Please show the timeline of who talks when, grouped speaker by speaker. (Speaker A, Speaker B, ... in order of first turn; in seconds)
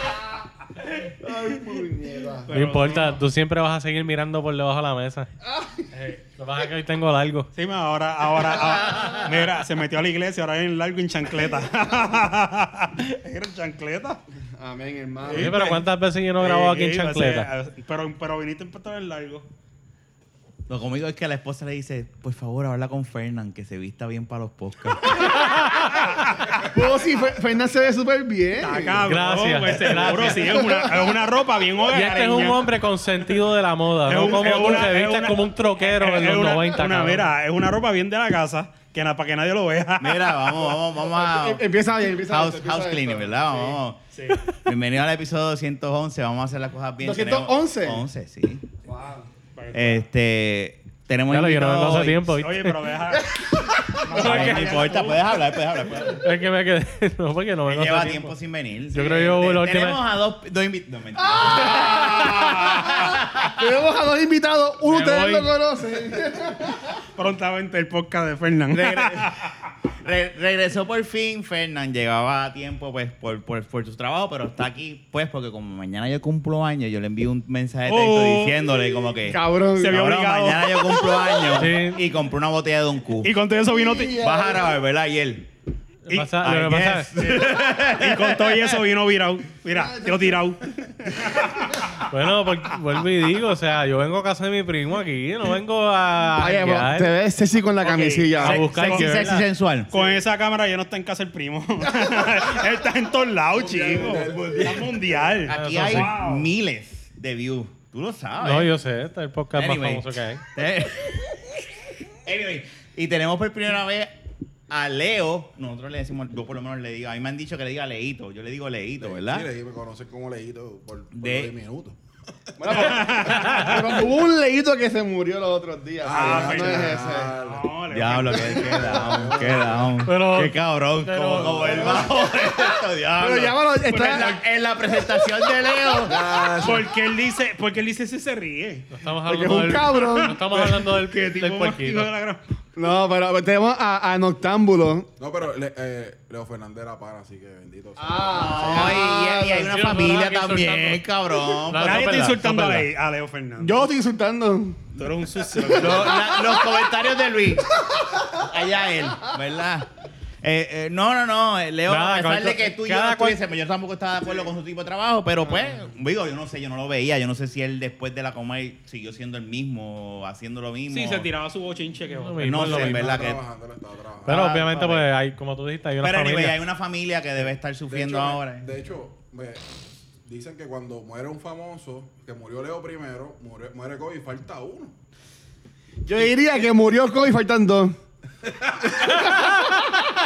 Speaker A: 1.1-2.5, 14.6-15.5, 26.6-29.1, 30.0-31.1, 41.0-43.8, 47.0-48.0, 48.9-49.3, 53.1-55.1, 61.2-67.0, 79.3-80.0, 83.7-84.7, 89.7-90.5, 96.4-98.6, 101.9-102.5, 122.6-127.3, 131.8-134.4, 139.3-140.8, 142.8-145.1, 148.0-149.8, 153.6-156.7, 186.1-188.0, 189.4-190.0
Speaker B: 2.5-3.2, 5.9-6.2, 7.5-14.2, 15.2-15.9, 16.4-19.5, 25.7-26.6, 28.6-32.7, 34.1-40.8, 44.1-44.5, 49.6-50.0, 52.4-53.4, 54.0-55.4, 62.1-63.0, 67.2-69.5, 77.9-78.8, 79.8-81.3, 83.2-84.2, 86.1-86.3, 87.2-91.9, 97.8-99.3, 99.9-106.5, 122.7-124.0, 126.1-128.8, 136.6-138.9, 139.9-142.4, 151.8-153.9, 155.0-156.4, 170.9-172.6
Speaker C: 2.5-5.3, 6.4-7.5, 15.3-17.5, 25.2-26.1, 29.1-30.7, 31.9-37.3, 51.3-52.9, 56.2-58.3, 58.9-60.0, 64.8-65.5, 81.5-82.0, 86.1-87.1, 92.1-97.1, 98.4-99.5, 105.5-106.2, 108.4-110.4, 130.1-131.8, 138.9-142.1, 149.5-152.9, 161.9-163.4, 172.2-173.3, 174.3-176.6
Speaker D: 8.9-9.2, 20.7-25.5, 40.0-41.6, 42.1-48.7, 49.7-52.4, 53.9-56.3, 57.7-63.8, 68.7-69.3, 70.0-83.3, 84.1-85.5, 86.4-88.8, 98.5-99.9, 104.1-104.9, 105.5-108.7, 109.5-111.7, 112.2-114.1, 114.7-119.5, 121.1-121.5, 127.9-136.2, 148.3-152.3, 155.8-157.7, 158.3-159.9, 160.4-171.3, 172.4-173.4, 174.3-175.1, 176.0-178.7
Speaker E: 103.5-105.2, 119.0-122.0, 122.6-123.5, 126.0-127.8, 128.4-130.1, 131.4-132.1, 136.0-136.9, 145.2-149.0, 172.5-174.6, 177.9-179.6, 180.2-185.0, 188.5-189.3